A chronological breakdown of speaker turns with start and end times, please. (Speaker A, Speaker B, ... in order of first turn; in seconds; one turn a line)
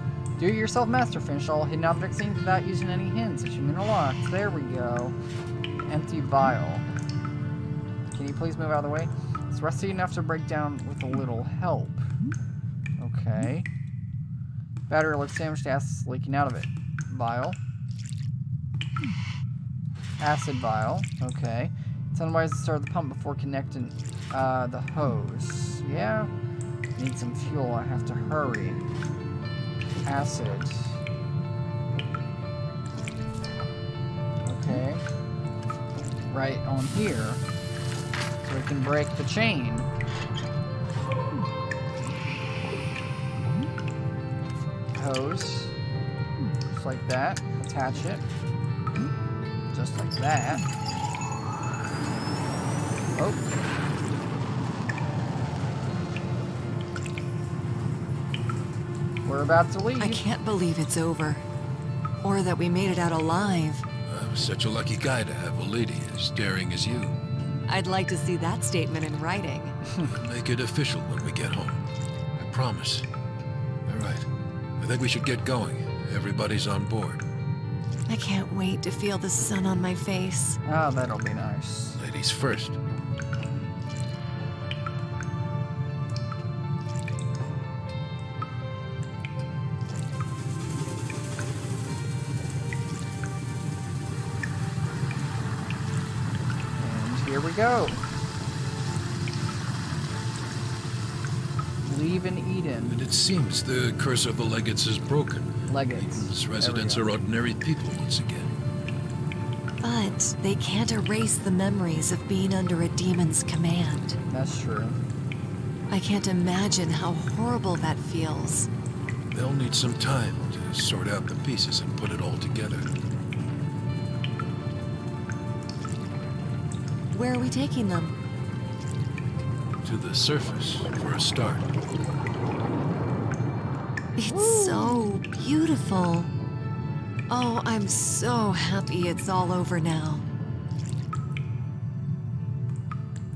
Speaker A: 0.4-5.2
Speaker A: 5.8-6.9
Speaker A: 8.1-12.1
Speaker A: 13.0-13.7
Speaker A: 14.9-17.6
Speaker A: 20.2-26.3
Speaker A: 27.0-28.8
Speaker A: 30.1-31.0
Speaker A: 34.4-35.0
Speaker A: 36.3-37.4
Speaker A: 38.4-39.9
Speaker A: 45.0-45.8
Speaker A: 46.7-48.2
Speaker A: 49.7-50.6
Speaker A: 53.1-53.5
Speaker A: 59.2-60.2
Speaker B: 60.0-61.5
Speaker B: 62.2-63.9
Speaker C: 64.1-67.2
Speaker B: 67.7-69.8
Speaker C: 70.2-71.8
Speaker C: 72.4-73.1
Speaker C: 73.9-74.2
Speaker C: 74.8-77.2
Speaker B: 78.1-80.6
Speaker A: 80.7-82.0
Speaker C: 82.0-82.8
Speaker A: 96.8-98.0
Speaker A: 101.8-103.0
Speaker C: 102.9-108.5
Speaker A: 105.7-107.1
Speaker B: 109.8-114.2
Speaker A: 114.3-115.0
Speaker B: 115.9-118.7
Speaker C: 119.3-122.9
Speaker B: 127.1-128.2
Speaker C: 129.8-131.7
Speaker B: 134.2-136.3
Speaker A: 134.3-135.1
Speaker B: 137.3-140.2